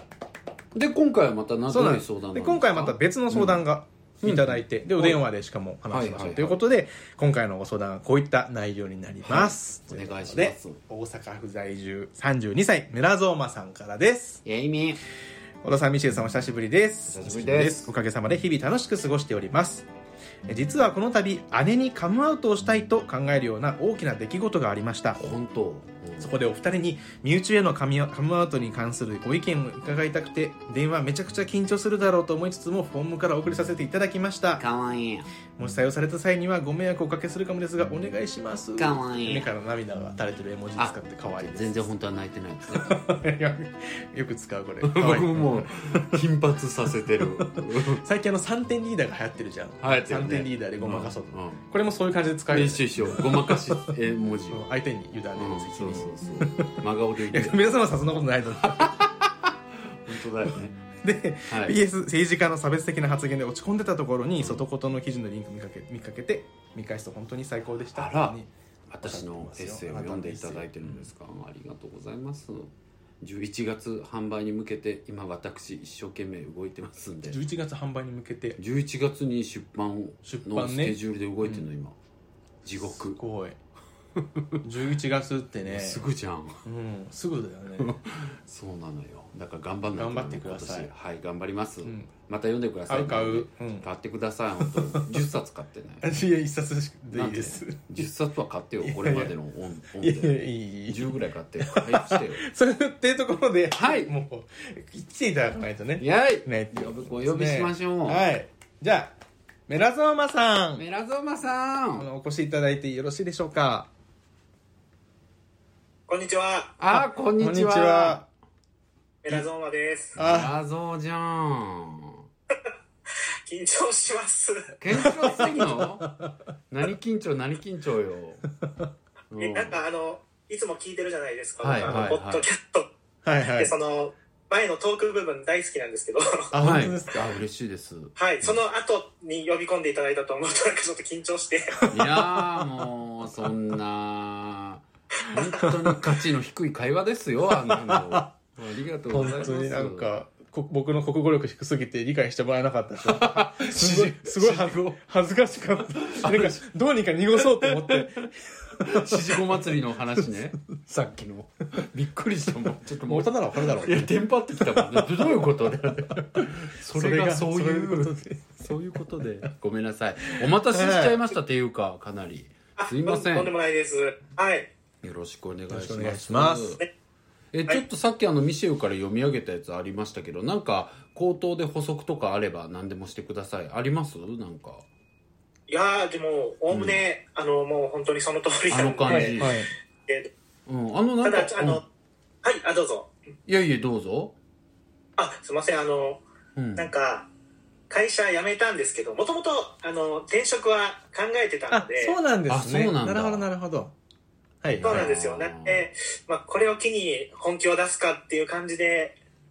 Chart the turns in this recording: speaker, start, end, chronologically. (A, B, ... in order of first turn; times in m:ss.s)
0:00.7-0:03.6 A
0:01.7-0:14.4 B
0:04.2-0:05.2 A
0:05.9-0:06.6 A
0:09.2-0:10.8 A
0:14.4-0:15.0 A
0:15.6-0:19.9 B
0:17.1-0:17.9 A
0:20.5-0:25.2 B
0:25.2-0:26.3 A
0:26.2-0:34.6 B
0:34.6-0:35.3 A
0:35.6-0:41.9 B
0:38.8-0:39.5 A
0:40.8-0:43.0 A
0:42.7-0:46.2 B
0:44.8-0:48.0 A
0:47.2-0:54.0 B
0:49.8-0:51.6 A
0:52.5-0:54.7 A
0:54.5-0:59.0 B
0:55.4-0:57.9 A
0:58.6-1:00.8 A
1:01.0-1:08.5 B
1:01.5-1:01.8 A
1:04.4-1:04.7 A
1:07.9-1:08.4 A
1:08.9-1:17.4 A
1:09.0-1:11.1 B
1:17.3-1:18.6 B
1:18.6-1:22.0 A
1:20.2-1:21.7 B
1:22.6-1:23.2 A
1:22.8-1:23.6 B
1:24.2-1:24.5 A
1:24.6-1:26.0 B
1:25.6-1:26.6 A
1:26.6-1:28.0 B
1:27.8-1:36.1 A
1:30.0-1:30.9 B
1:31.8-1:32.1 B
1:32.9-1:33.9 B
1:34.6-1:35.2 B
1:36.0-1:38.1 B
1:37.1-1:42.4 A
1:38.8-1:39.3 B
1:40.0-1:49.2 B
1:43.7-1:44.1 A
1:46.0-1:48.3 A
1:49.7-1:50.8 B
1:50.8-1:52.1 A
1:52.0-1:53.9 B
1:56.1-1:56.8 C
1:56.8-1:58.2 A
1:56.9-1:58.3 B
1:59.2-2:00.2 C
2:00.2-2:02.2 A
2:00.2-2:00.6 B
2:03.5-2:04.8 C
2:04.8-2:06.1 A
2:04.9-2:06.4 B
2:06.7-2:08.4 A
2:08.6-2:08.9 B
2:09.3-2:09.8 A
2:09.4-2:12.9 C
2:11.6-2:12.4 A
2:13.2-2:13.8 B
2:13.6-2:16.5 C
2:16.5-2:17.3 B
2:16.6-2:18.6 A
2:18.2-2:21.9 C
2:21.8-2:22.7 B
2:21.9-2:30.1 A
2:25.6-2:25.9 B
2:27.6-2:28.3 B
2:29.1-2:40.3 B
2:33.0-2:35.0 A
2:36.0-2:36.6 A
2:37.4-2:38.1 A
2:38.9-2:53.5 A
2:43.1-2:49.5 B
2:50.3-2:51.3 B
2:52.8-2:54.7 C
2:55.0-2:56.8 A
2:55.7-2:56.8 B
2:57.5-3:04.8 A
3:05.7-3:10.3 C
3:06.7-3:07.0 A
3:08.7-3:09.6 A
3:09.1-3:09.7 B
3:10.7-3:11.8 A
3:11.2-3:11.8 C
3:12.4-3:13.1 C
3:13.5-3:14.4 A
3:15.2-3:16.2 C
3:16.6-3:16.9 A
3:16.8-3:17.3 C
3:17.9-3:22.2 C
3:21.7-3:23.9 B
3:22.5-3:23.5 A
3:24.6-3:25.1 B
3:24.8-3:25.9 A
3:24.8-3:29.2 C